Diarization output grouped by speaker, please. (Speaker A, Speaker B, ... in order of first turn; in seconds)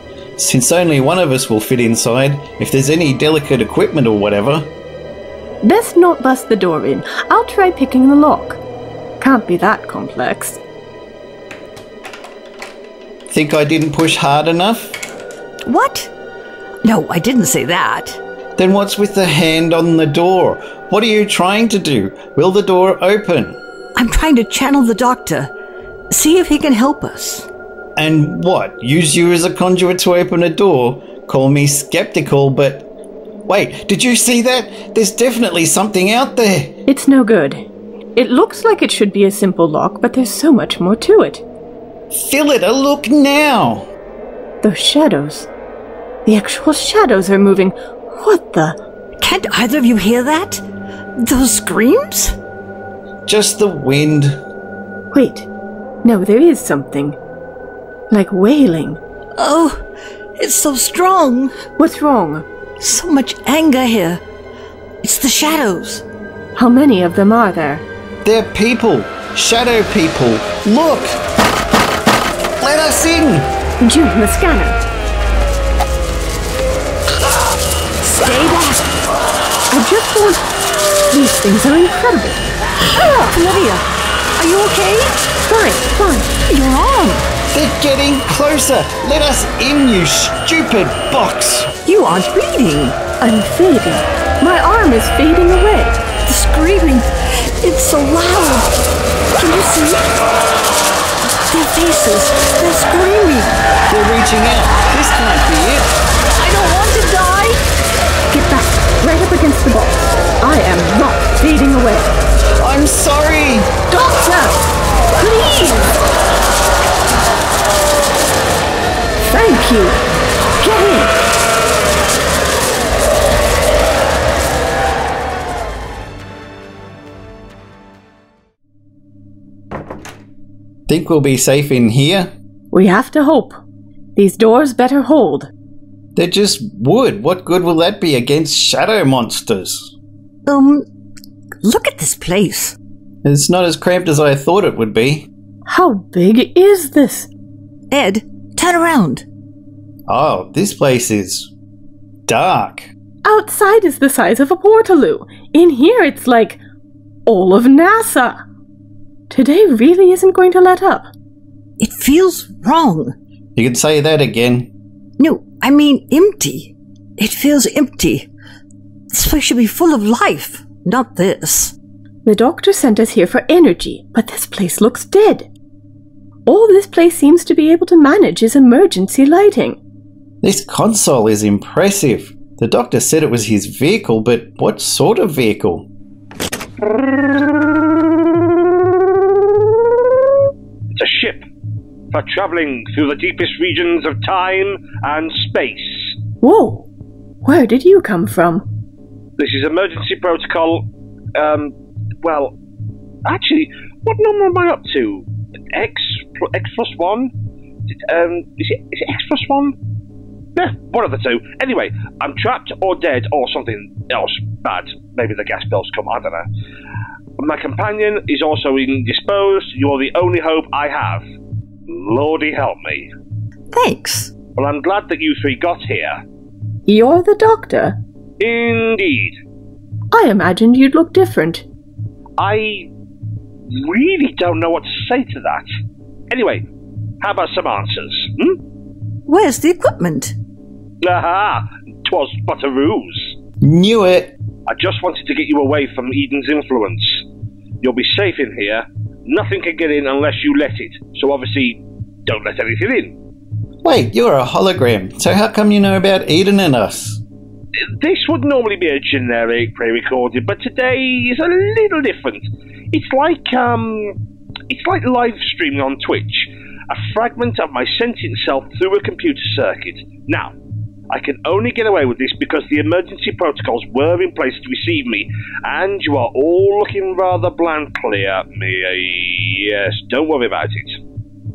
Speaker A: 0.4-4.7, 13.3-15.0, 18.6-23.6, 28.0-32.9, 33.5-36.8, 42.1-43.9, 53.3-54.4, 68.2-71.2, 72.6-73.5, 87.5-91.7, 103.9-105.9, 112.6-113.7, 130.9-132.3, 136.2-139.9, 143.2-145.3, 150.1-151.5, 152.3-152.9, 163.6-164.7, 180.4-185.9, 243.6-244.3, 253.8-257.2
Speaker B: 5.6-8.6, 9.2-10.6, 36.9-37.6, 38.2-41.4, 44.6-45.5, 46.3-48.8, 55.1-55.5, 56.0-57.2, 58.1-59.0, 61.8-62.5, 66.6-67.8, 73.8-74.8, 78.0-78.9, 79.7-80.5, 81.1-82.5, 85.4-86.3, 93.2-96.0, 108.3-112.2, 113.9-116.0, 119.3-120.0, 120.6-121.2, 132.7-133.6, 134.2-135.5, 145.7-147.3, 153.2-156.6, 157.3-158.4, 159.3-161.1, 172.2-175.5, 176.5-179.8, 196.4-196.9, 197.4-198.7, 226.9-228.0, 230.1-231.6
Speaker C: 15.6-16.1, 16.8-18.2, 24.0-25.5, 26.1-27.5, 49.2-50.6, 51.1-52.4, 59.4-59.8, 60.4-61.6, 62.8-64.2, 65.0-66.0, 82.9-83.8, 84.4-85.2, 86.5-87.3, 91.8-93.0, 96.2-98.8, 99.4-100.2, 101.5-103.6, 106.4-107.6, 140.5-140.9, 141.6-142.8, 147.9-149.2, 161.8-163.2, 165.2-168.3, 169.1-171.7, 223.7-224.3, 239.3-240.3
Speaker D: 190.9-191.4, 192.1-196.1, 199.4-202.5, 203.2-207.3, 207.9-209.8, 210.6-216.5, 217.4-221.2, 221.9-223.1, 224.6-226.2, 228.4-229.4, 232.4-232.9, 233.7-235.7, 236.3-236.7, 237.2-238.6, 241.0-243.3, 244.7-247.2, 247.8-253.2, 258.0-270.5, 271.1-281.0